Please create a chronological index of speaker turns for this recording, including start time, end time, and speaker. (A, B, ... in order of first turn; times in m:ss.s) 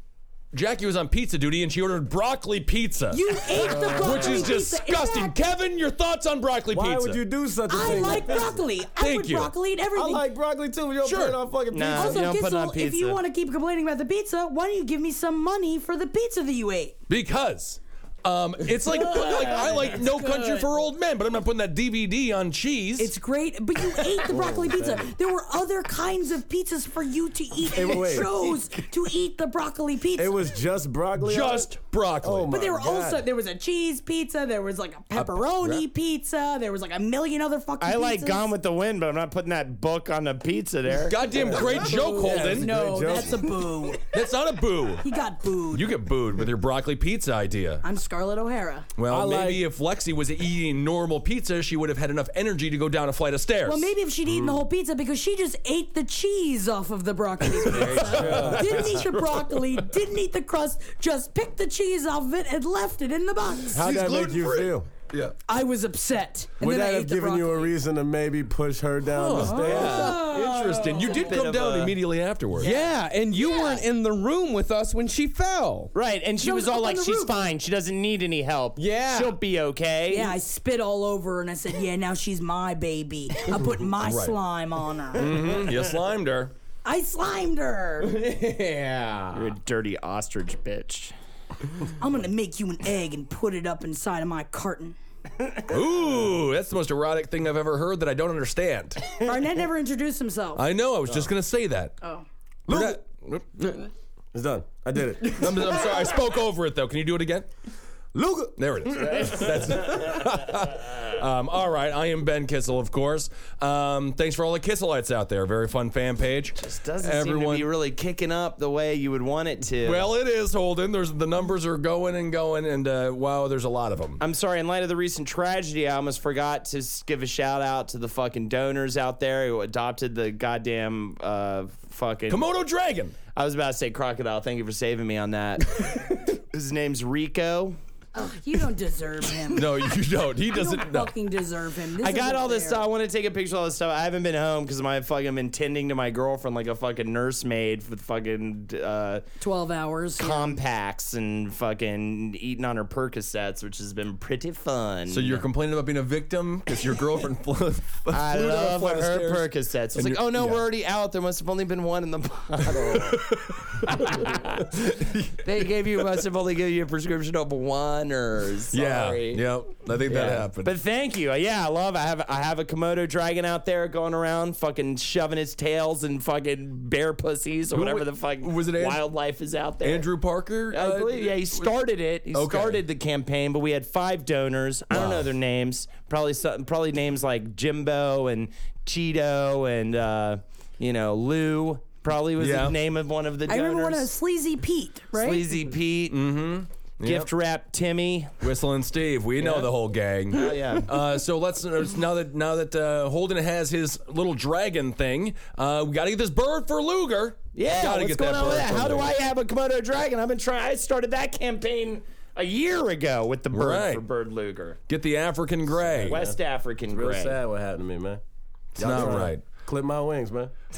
0:00.5-0:07.2 A
0:03.1-0:05.4 B
0:03.7-0:04.4 C
0:06.7-0:08.6 C
0:07.7-0:10.3 B
0:09.0-0:09.5 A
0:10.0-0:12.3 C
0:11.0-0:11.4 A
0:11.7-0:13.2 D
0:11.9-0:17.0 B
0:17.1-0:23.1 A
0:18.9-0:20.7 B
0:23.0-0:30.4 B
0:24.3-0:25.1 C
0:27.6-0:28.5 C
0:30.2-0:31.7 C
0:31.2-0:32.5 A
0:32.2-0:33.2 C
0:32.5-0:38.5 B
0:35.1-0:35.8 A
0:37.8-0:41.2 D
0:40.9-0:42.8 A
0:41.3-0:43.6 C
0:41.7-0:44.1 B
0:44.1-0:45.1 A
0:45.0-0:45.9 B
0:45.7-0:47.8 A
0:47.8-0:48.9 B
0:49.0-0:54.6 A
0:49.1-0:49.6 C
0:53.6-1:03.8 B
0:57.5-0:59.8 A
0:57.9-0:58.9 C
1:03.7-1:04.9 C
1:03.8-1:05.4 A
1:05.5-1:07.7 B
1:06.6-1:10.1 C
1:09.1-1:12.7 A
1:09.3-1:11.4 B
1:09.6-1:12.0 D
1:12.6-1:12.9 D
1:12.6-1:15.9 E
1:15.9-1:20.4 D
1:16.4-1:17.4 B
1:18.8-1:19.4 E
1:20.1-1:25.4 B
1:24.0-1:24.4 A
1:25.1-1:26.5 A
1:26.8-1:28.1 B
1:28.0-1:29.5 E
1:29.4-1:31.1 D
1:32.0-1:35.0 B
1:35.7-1:39.0 A
1:39.2-1:40.6 B
1:40.6-1:42.0 A
1:42.7-1:43.0 C
1:42.7-1:43.4 A
1:44.3-1:45.7 C
1:45.4-1:47.5 A
1:48.1-1:48.5 C
1:48.6-1:57.7 A
1:56.6-2:00.0 D
1:59.8-2:04.2 A
2:04.2-2:12.4 D
2:12.3-2:13.2 A
2:13.4-2:17.8 D
2:18.2-2:19.8 B
2:19.5-2:21.1 A
2:20.5-2:22.9 B
2:22.0-2:29.2 D
2:29.4-2:30.6 B
2:30.2-2:35.4 D
2:35.1-2:38.5 A
2:38.1-2:49.4 D
2:38.2-2:39.5 C
2:39.9-2:40.6 A
2:42.7-2:43.7 A
2:48.7-2:50.7 A
2:50.0-3:00.1 D
2:57.7-2:59.0 A
2:59.8-3:01.8 A
3:00.7-3:14.1 D
3:02.3-3:02.8 A
3:04.9-3:05.3 A
3:12.4-3:12.8 A
3:13.5-3:15.6 B
3:15.2-3:16.2 D
3:16.1-3:17.3 A
3:17.0-3:18.4 D
3:18.4-3:29.1 A
3:19.4-3:19.7 D
3:20.3-3:20.9 D
3:27.6-3:34.8 D
3:33.5-3:34.0 A
3:34.9-3:36.2 A
3:36.0-3:36.4 C
3:36.0-3:37.4 D
3:36.9-3:38.2 C
3:38.8-3:40.5 C
3:38.8-3:39.4 A